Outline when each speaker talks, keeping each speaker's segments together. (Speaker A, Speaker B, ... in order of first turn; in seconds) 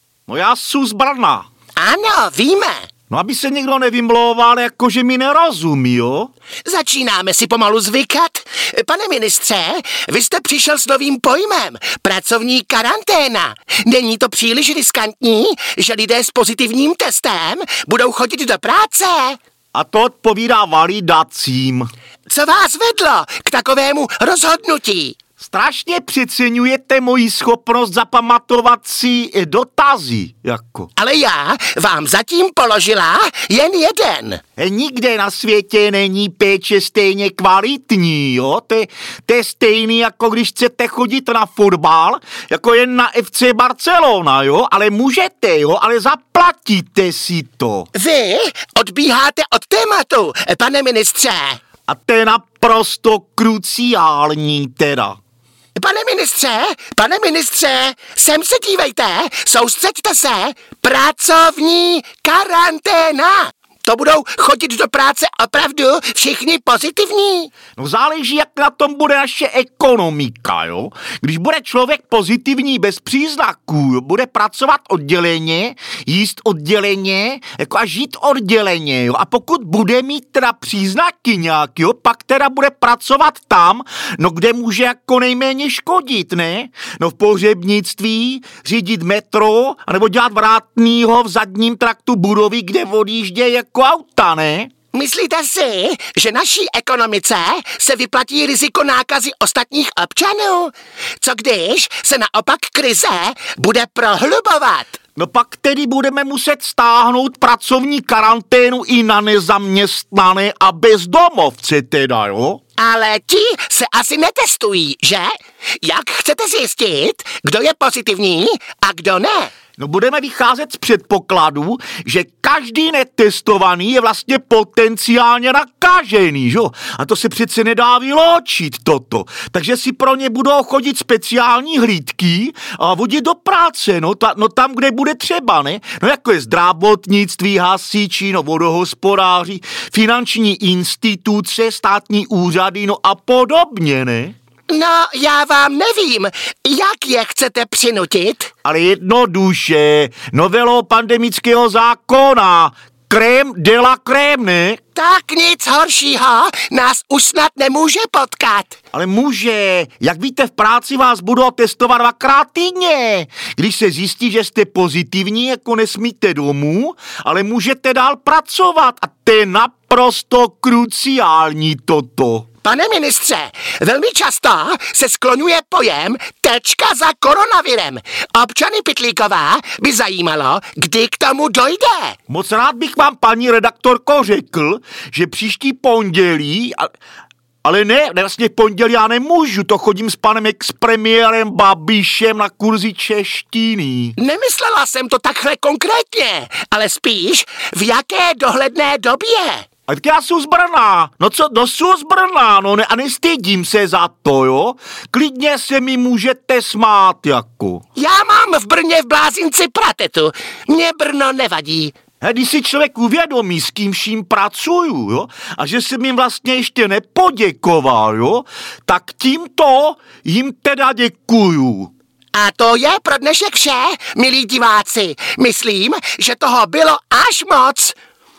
Speaker A: 0.3-1.5, 3.1-6.3, 19.7-21.9, 25.4-30.9, 34.6-47.9, 51.9-55.2, 67.8-94.7, 105.2-112.6, 119.8-144.3, 148.7-154.8, 158.9-172.5, 182.3-186.9, 187.6-194.2, 199.9-207.8, 212.2-221.9
Speaker B: 1.8-2.9, 6.7-19.4, 22.3-25.2, 31.0-34.4, 47.9-51.6, 55.8-67.5, 94.9-105.0, 112.8-119.5, 144.7-148.5, 154.9-158.8, 172.6-182.2, 194.2-199.7, 208.0-212.0, 222.3-228.0